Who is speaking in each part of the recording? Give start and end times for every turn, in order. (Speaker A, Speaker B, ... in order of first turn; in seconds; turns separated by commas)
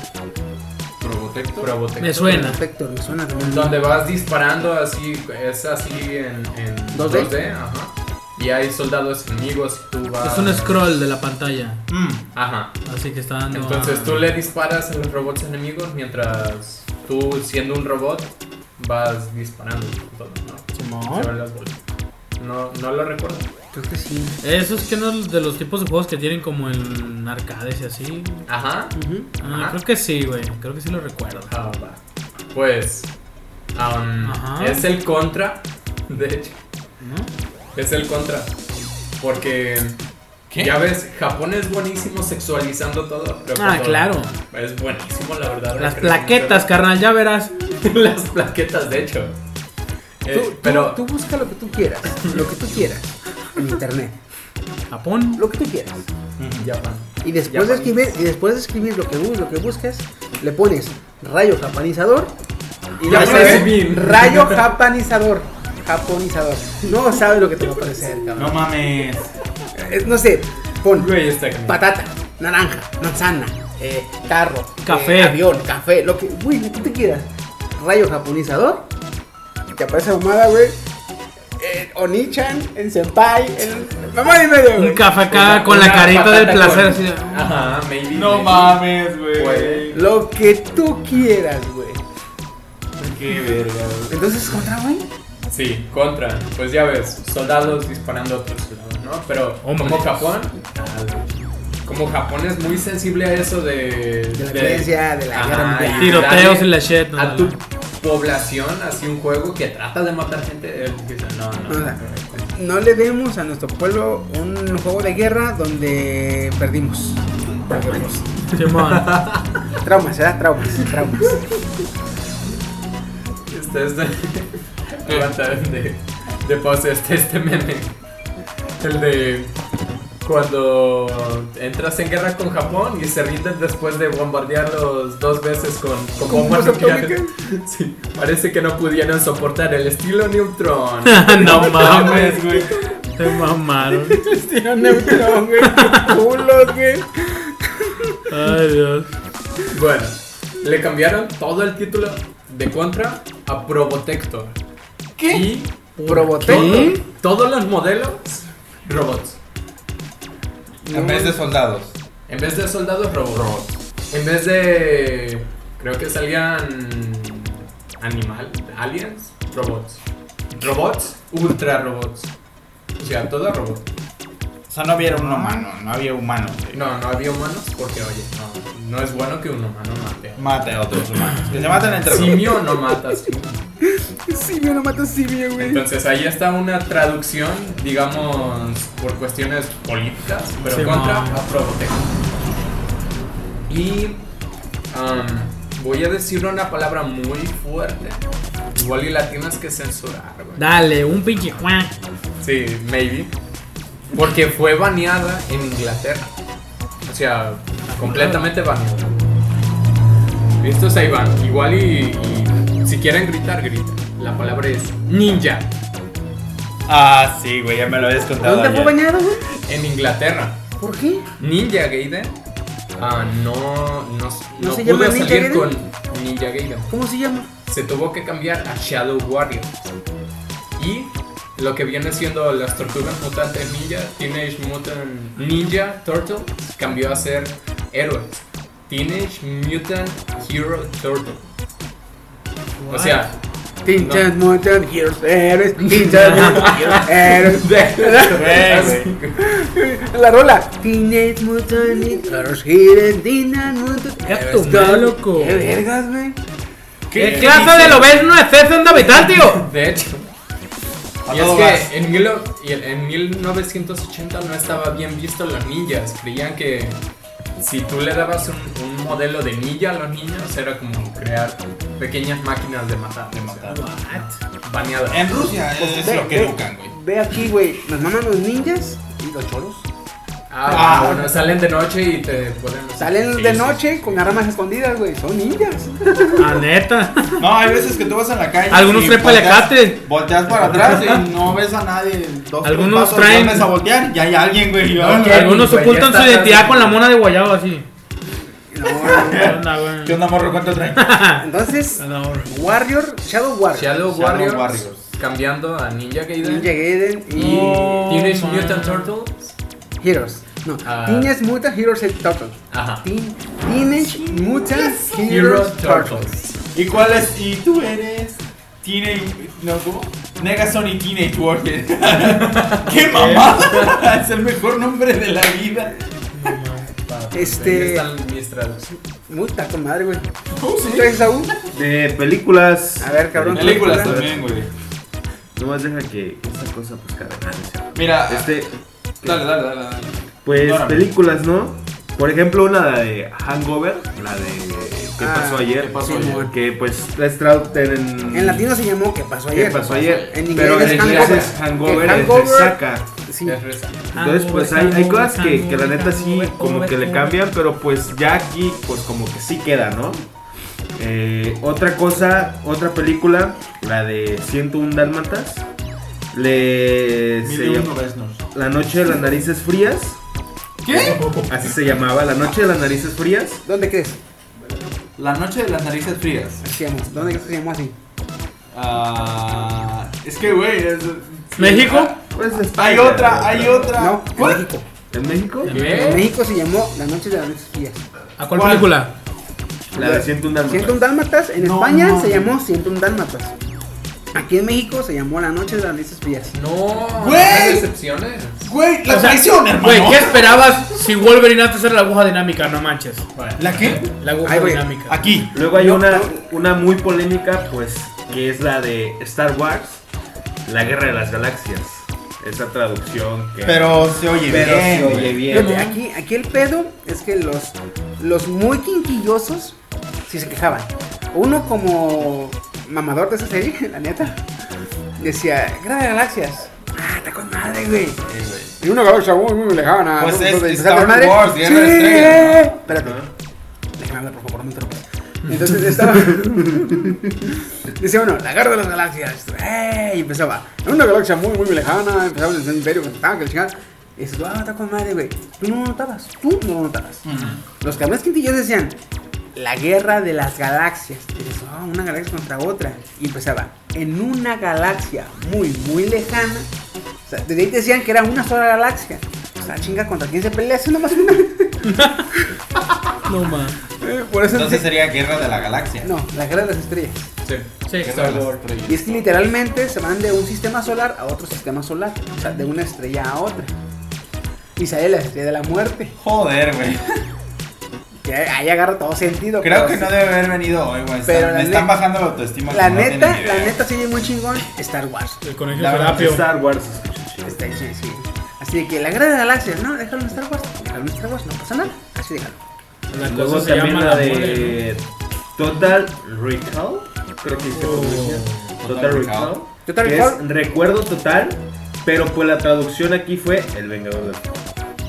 Speaker A: 1.0-1.7, Speaker B: 1.6-2.4, Speaker C: 2.0-2.6, Speaker D: 2.1-3.8, Speaker B: 3.4-10.8, Speaker D: 6.9-7.3, Speaker C: 10.2-11.8, Speaker A: 11.9-12.2, Speaker B: 12.3-12.8, Speaker C: 12.8-14.2, Speaker B: 13.5-21.8, Speaker C: 20.8-21.3, Speaker B: 22.4-23.5, Speaker D: 23.7-24.4, Speaker C: 24.4-28.4, Speaker B: 28.5-29.8, Speaker D: 28.9-29.3, Speaker C: 29.4-31.5, Speaker B: 31.5-32.0, Speaker B: 32.5-33.1, Speaker B: 33.7-36.6, Speaker C: 34.2-34.8, Speaker C: 37.0-37.3, Speaker B: 37.7-38.5, Speaker B: 39.2-40.0, Speaker A: 40.5-40.8, Speaker B: 40.6-46.6, Speaker C: 43.5-44.4, Speaker C: 45.8-47.5, Speaker B: 47.7-49.3, Speaker B: 50.2-51.0, Speaker D: 50.3-54.2, Speaker C: 54.9-55.4, Speaker D: 55.4-56.1, Speaker A: 56.4-56.7, Speaker B: 56.6-58.0, Speaker D: 57.2-62.3, Speaker D: 63.0-68.7, Speaker B: 63.0-64.6, Speaker A: 63.0-63.7, Speaker A: 68.3-69.3, Speaker D: 69.7-71.1, Speaker B: 70.9-71.8, Speaker D: 71.6-78.9, Speaker C: 74.8-75.4, Speaker D: 79.7-80.8, Speaker D: 81.6-85.0, Speaker C: 84.7-87.6, Speaker B: 85.3-88.8, Speaker A: 88.1-90.1, Speaker E: 89.4-89.8, Speaker D: 89.9-92.0, Speaker A: 93.0-94.2, Speaker D: 94.1-95.1, Speaker B: 95.5-112.5, Speaker C: 99.6-100.3, Speaker D: 104.3-106.4, Speaker C: 105.9-107.6, Speaker D: 111.7-118.2, Speaker C: 118.5-119.2, Speaker B: 118.6-119.6, Speaker D: 119.8-121.4, Speaker B: 123.5-128.0, Speaker A: 125.0-125.3, Speaker B: 128.8-129.5, Speaker B: 130.2-142.2, Speaker D: 136.2-137.3, Speaker C: 141.0-142.4, Speaker A: 141.4-142.7, Speaker D: 141.4-142.9, Speaker C: 143.2-144.3, Speaker D: 144.0-148.2, Speaker C: 145.6-146.2, Speaker C: 148.3-149.1, Speaker B: 149.7-154.6, Speaker A: 155.2-155.4, Speaker B: 155.2-159.4, Speaker C: 156.0-157.0, Speaker D: 156.1-157.0, Speaker D: 160.8-161.4, Speaker A: 160.9-161.9, Speaker B: 162.3-170.0, Speaker B: 170.5-172.3, Speaker B: 172.9-173.8, Speaker A: 174.7-176.8, Speaker B: 176.7-180.7, Speaker A: 180.4-182.6, Speaker B: 182.0-183.6, Speaker D: 182.2-182.9, Speaker D: 183.8-185.8, Speaker B: 185.6-192.1, Speaker A: 190.6-190.9, Speaker C: 190.7-191.4, Speaker B: 193.7-194.2, Speaker B: 194.9-198.2, Speaker B: 198.7-200.6, Speaker C: 200.6-201.9, Speaker B: 202.4-203.3, Speaker B: 204.1-206.3, Speaker B: 207.1-209.2, Speaker C: 207.9-208.5, Speaker B: 210.6-215.7, Speaker A: 216.9-219.0, Speaker D: 218.4-219.4, Speaker B: 219.6-220.6, Speaker D: 220.8-221.3, Speaker B: 221.4-222.4, Speaker B: 223.0-226.9, Speaker D: 224.6-225.7, Speaker D: 226.9-227.5, Speaker B: 227.7-229.9, Speaker B: 230.8-241.5, Speaker C: 242.8-243.3, Speaker B: 242.9-243.3, Speaker D: 243.8-248.8, Speaker B: 243.9-244.3, Speaker B: 246.0-249.5, Speaker C: 246.2-247.0, Speaker A: 248.3-249.2, Speaker D: 249.4-256.4, Speaker C: 254.2-255.7, Speaker A: 257.1-258.2, Speaker C: 257.2-259.7, Speaker B: 257.2-258.1, Speaker B: 259.0-260.3, Speaker A: 261.2-261.9, Speaker B: 261.3-267.0, Speaker B: 267.6-273.8, Speaker A: 273.3-274.3, Speaker C: 273.7-274.4, Speaker B: 274.6-275.3, Speaker A: 275.1-276.9, Speaker D: 275.8-279.9, Speaker B: 280.5-284.3, Speaker D: 280.7-281.4, Speaker A: 280.7-281.3, Speaker D: 283.0-286.4, Speaker C: 286.4-287.4, Speaker A: 287.4-295.5, Speaker C: 288.7-291.2, Speaker B: 290.6-291.2, Speaker C: 292.6-293.7, Speaker B: 295.0-297.0, Speaker C: 295.0-297.8, Speaker D: 298.7-299.6, Speaker A: 298.9-301.3, Speaker C: 299.2-300.2, Speaker C: 300.9-302.5, Speaker D: 301.3-304.0, Speaker B: 303.7-306.7, Speaker A: 304.0-305.1, Speaker D: 306.4-308.1, Speaker B: 307.3-309.6, Speaker A: 307.4-308.0, Speaker C: 307.4-309.1, Speaker D: 310.0-316.3, Speaker B: 310.8-311.3, Speaker B: 312.7-313.0, Speaker A: 313.7-315.3, Speaker B: 315.2-316.6, Speaker A: 316.7-325.9, Speaker B: 322.2-324.0, Speaker C: 326.4-326.9, Speaker B: 326.9-328.9, Speaker D: 327.3-328.0, Speaker D: 329.3-330.3, Speaker A: 330.5-331.2, Speaker D: 330.9-331.5, Speaker E: 331.7-334.5, Speaker D: 333.0-334.2, Speaker A: 333.5-334.7, Speaker E: 335.5-339.4, Speaker A: 337.9-338.7, Speaker A: 339.2-341.1, Speaker E: 340.4-348.8, Speaker D: 345.2-346.5, Speaker B: 345.9-346.4, Speaker D: 348.3-353.6, Speaker E: 349.5-353.1, Speaker B: 350.5-352.3, Speaker B: 353.4-354.1, Speaker C: 354.1-357.4, Speaker E: 354.1-360.3, Speaker E: 360.9-365.6, Speaker E: 366.3-367.9, Speaker A: 367.4-368.4, Speaker E: 368.5-370.2, Speaker A: 370.8-371.2, Speaker B: 370.9-371.5, Speaker E: 370.9-373.6, Speaker D: 373.6-374.2, Speaker A: 375.2-376.7, Speaker D: 376.6-377.9, Speaker A: 378.7-384.6, Speaker C: 381.6-382.2, Speaker E: 382.2-383.9, Speaker D: 383.9-384.9, Speaker E: 385.1-386.1, Speaker C: 385.6-386.3, Speaker B: 385.7-386.3, Speaker D: 385.8-388.0, Speaker C: 388.4-389.1, Speaker A: 388.5-388.9, Speaker E: 389.9-391.1, Speaker D: 389.9-393.5, Speaker A: 391.6-392.6, Speaker D: 394.3-396.5, Speaker B: 396.5-398.7, Speaker A: 397.1-397.9, Speaker A: 398.6-400.6, Speaker C: 399.1-403.2, Speaker B: 403.3-404.0, Speaker A: 403.6-404.1, Speaker C: 404.2-405.3, Speaker D: 404.4-404.9, Speaker A: 405.1-405.6, Speaker E: 405.5-410.0, Speaker D: 405.7-406.5, Speaker E: 410.6-415.8, Speaker A: 413.6-415.5, Speaker C: 415.5-416.0, Speaker D: 415.5-419.8, Speaker D: 420.3-424.4, Speaker D: 425.2-428.2, Speaker A: 428.2-428.7, Speaker D: 428.8-433.2, Speaker A: 430.2-432.7, Speaker E: 432.9-433.3, Speaker D: 434.0-447.2, Speaker A: 447.2-447.6, Speaker C: 447.3-447.6, Speaker D: 447.8-449.0, Speaker D: 449.5-456.7, Speaker D: 457.2-462.5, Speaker C: 461.8-462.3, Speaker C: 463.2-463.8, Speaker D: 464.0-464.9, Speaker A: 464.4-466.1, Speaker D: 466.0-467.3, Speaker B: 467.4-469.2, Speaker C: 467.9-468.4, Speaker A: 468.0-468.6, Speaker D: 468.9-473.7, Speaker D: 474.8-476.1, Speaker A: 476.2-477.2, Speaker D: 478.2-480.1, Speaker A: 479.6-483.8, Speaker D: 481.2-482.0, Speaker D: 482.7-485.4, Speaker C: 485.4-486.4, Speaker A: 485.7-486.3, Speaker E: 485.8-487.5, Speaker D: 487.4-492.6, Speaker C: 493.1-494.8, Speaker E: 493.2-504.4, Speaker C: 497.7-498.8, Speaker A: 498.8-499.6, Speaker D: 499.8-500.4